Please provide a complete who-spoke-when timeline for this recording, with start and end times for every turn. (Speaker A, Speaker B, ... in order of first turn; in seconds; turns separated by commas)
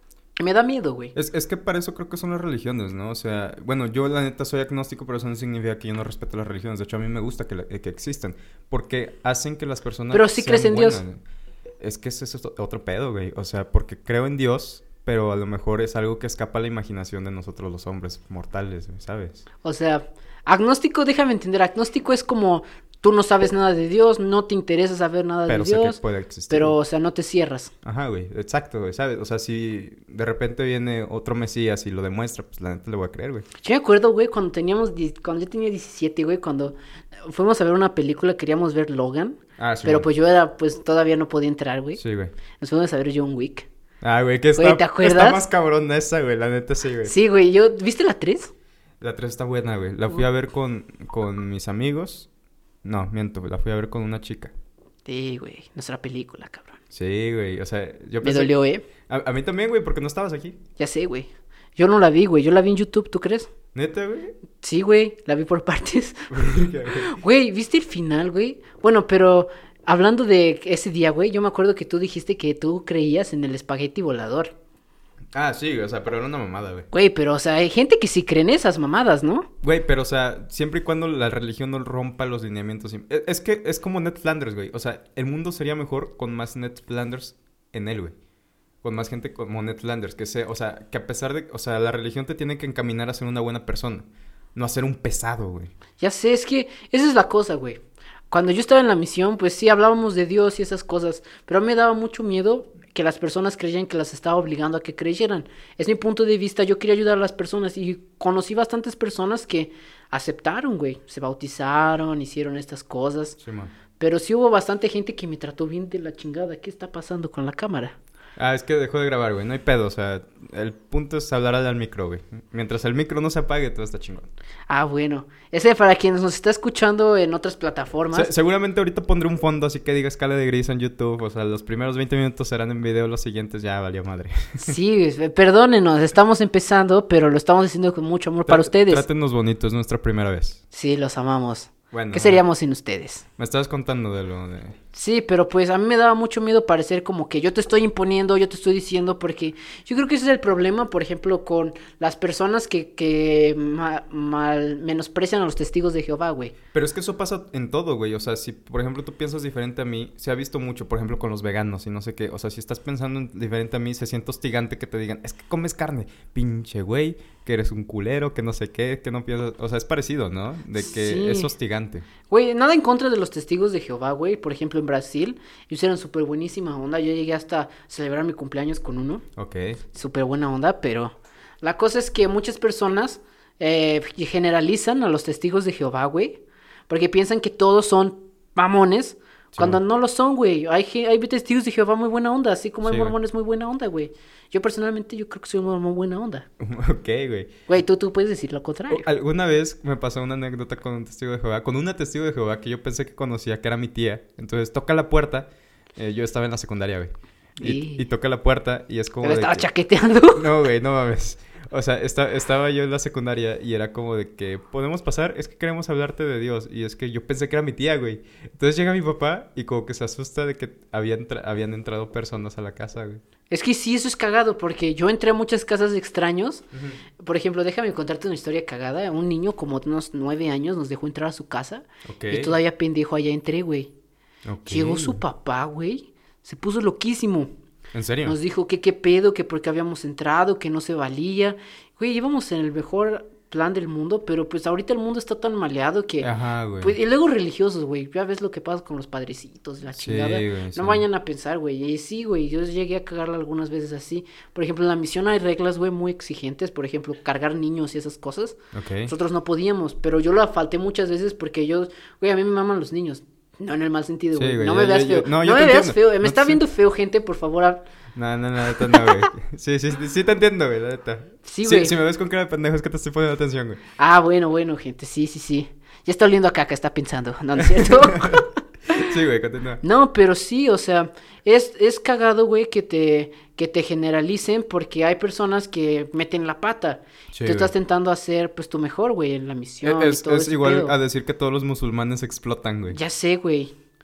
Speaker A: 0.4-1.1, Speaker B: 1.1-11.2, Speaker A: 10.1-11.0, Speaker B: 11.8-19.4, Speaker A: 19.6-27.7, Speaker B: 25.5-26.8, Speaker B: 27.8-33.5, Speaker A: 33.6-42.0, Speaker B: 39.6-40.1, Speaker B: 42.0-42.3, Speaker A: 42.6-43.7, Speaker B: 44.0-47.1, Speaker A: 44.5-45.4, Speaker A: 47.0-48.5, Speaker B: 49.0-52.3, Speaker B: 52.8-54.5, Speaker A: 55.0-56.8, Speaker B: 56.9-60.6, Speaker A: 58.2-58.8, Speaker A: 60.8-63.5, Speaker B: 63.7-64.4, Speaker A: 64.6-74.5, Speaker B: 66.3-67.1, Speaker B: 75.3-76.9, Speaker A: 76.9-79.5, Speaker B: 79.6-88.1, Speaker B: 88.8-95.7, Speaker A: 96.0-113.4, Speaker B: 113.4-113.7, Speaker A: 114.0-118.0, Speaker B: 118.4-124.3, Speaker A: 124.7-128.3, Speaker B: 128.1-134.7, Speaker A: 134.6-139.0, Speaker B: 138.4-140.6, Speaker A: 140.7-143.2, Speaker B: 141.9-142.4, Speaker B: 143.4-144.8, Speaker A: 144.9-156.5, Speaker B: 156.7-172.1, Speaker A: 170.8-171.5, Speaker A: 172.3-179.2, Speaker B: 179.4-179.8, Speaker A: 179.9-196.5, Speaker B: 189.5-189.8, Speaker B: 192.8-193.1, Speaker B: 196.6-197.5, Speaker A: 197.7-199.1, Speaker B: 198.9-209.7, Speaker A: 207.6-208.0, Speaker A: 209.2-210.5, Speaker B: 210.3-223.2, Speaker A: 223.5-226.6, Speaker B: 226.7-227.0, Speaker A: 227.2-233.9, Speaker B: 232.1-232.6, Speaker B: 234.4-235.2, Speaker A: 234.7-237.5, Speaker B: 237.9-238.3, Speaker A: 238.2-246.3, Speaker B: 246.2-246.9, Speaker A: 246.8-267.8, Speaker B: 250.0-251.0, Speaker B: 258.7-259.1, Speaker B: 264.3-266.6, Speaker B: 268.1-273.8, Speaker A: 268.7-269.3, Speaker A: 271.4-271.9, Speaker A: 274.0-279.1, Speaker B: 277.6-279.8, Speaker A: 279.8-290.9, Speaker B: 287.3-287.7, Speaker B: 289.8-293.0, Speaker A: 292.9-293.7